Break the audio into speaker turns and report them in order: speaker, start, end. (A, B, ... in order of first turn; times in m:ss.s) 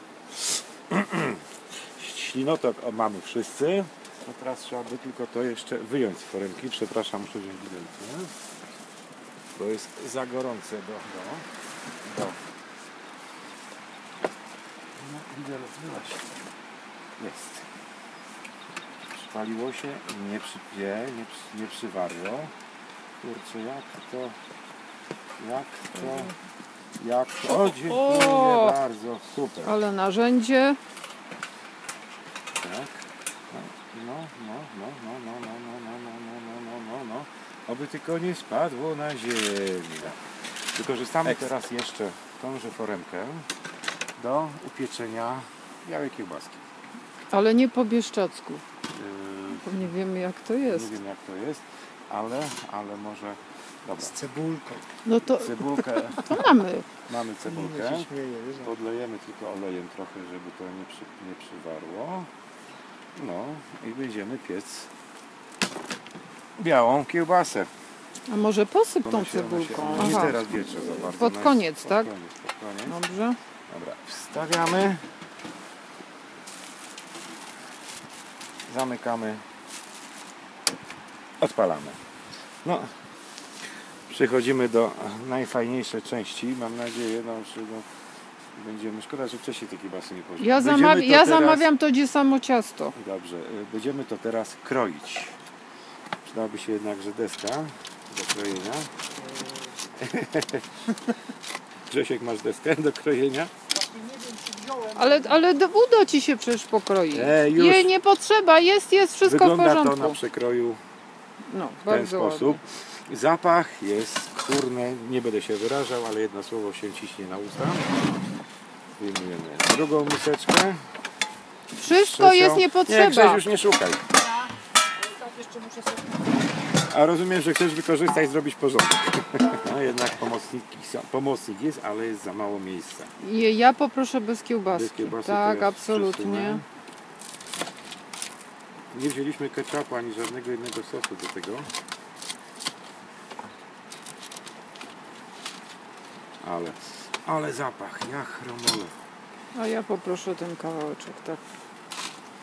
0:00.9-0:08.3 A
0:09.6-0:11.5 A
0:12.0-0:12.4 A
0:15.0-0:16.4 A
0:17.2-0:17.7 A
0:19.1-0:22.5 A
0:23.2-0:24.4 A
0:25.4-0:26.3 A
0:26.0-0:26.3 B
0:27.0-0:29.7 A
0:27.6-0:28.8 B
0:29.6-0:30.8 B
0:32.6-0:43.5 A
0:44.2-0:46.6 A
0:47.3-0:48.6 B
0:48.9-0:50.0 A
0:49.5-0:51.0 B
0:50.6-0:54.2 A
0:54.0-0:54.8 C
0:55.0-0:56.9 B
0:55.3-1:02.3 A
0:57.4-0:58.7 C
1:03.1-1:04.9 A
1:06.6-1:07.7 A
1:08.3-1:12.1 B
1:09.0-1:13.0 A
1:12.8-1:13.4 B
1:13.7-1:15.1 A
1:18.6-1:19.4 A
1:21.4-1:22.0 A
1:22.6-1:23.0 A
1:24.1-1:27.8 A
1:28.5-1:31.7 A
1:30.4-1:32.9 B
1:32.9-1:35.4 A
1:36.2-1:38.9 A
1:39.9-1:40.8 A
1:41.9-1:43.5 A
1:43.8-1:45.5 C
1:44.9-1:50.2 B
1:47.1-1:47.9 A
1:49.2-1:50.8 A
1:51.5-1:52.6 B
1:51.8-1:57.9 A
1:59.0-2:00.9 A
2:01.7-2:03.4 B
2:01.9-2:04.0 A
2:05.1-2:06.2 C
2:06.8-2:13.1 A
2:13.2-2:16.6 B
2:14.7-2:16.6 A
2:18.9-2:21.7 A
2:26.4-2:28.9 A
2:29.5-2:31.4 B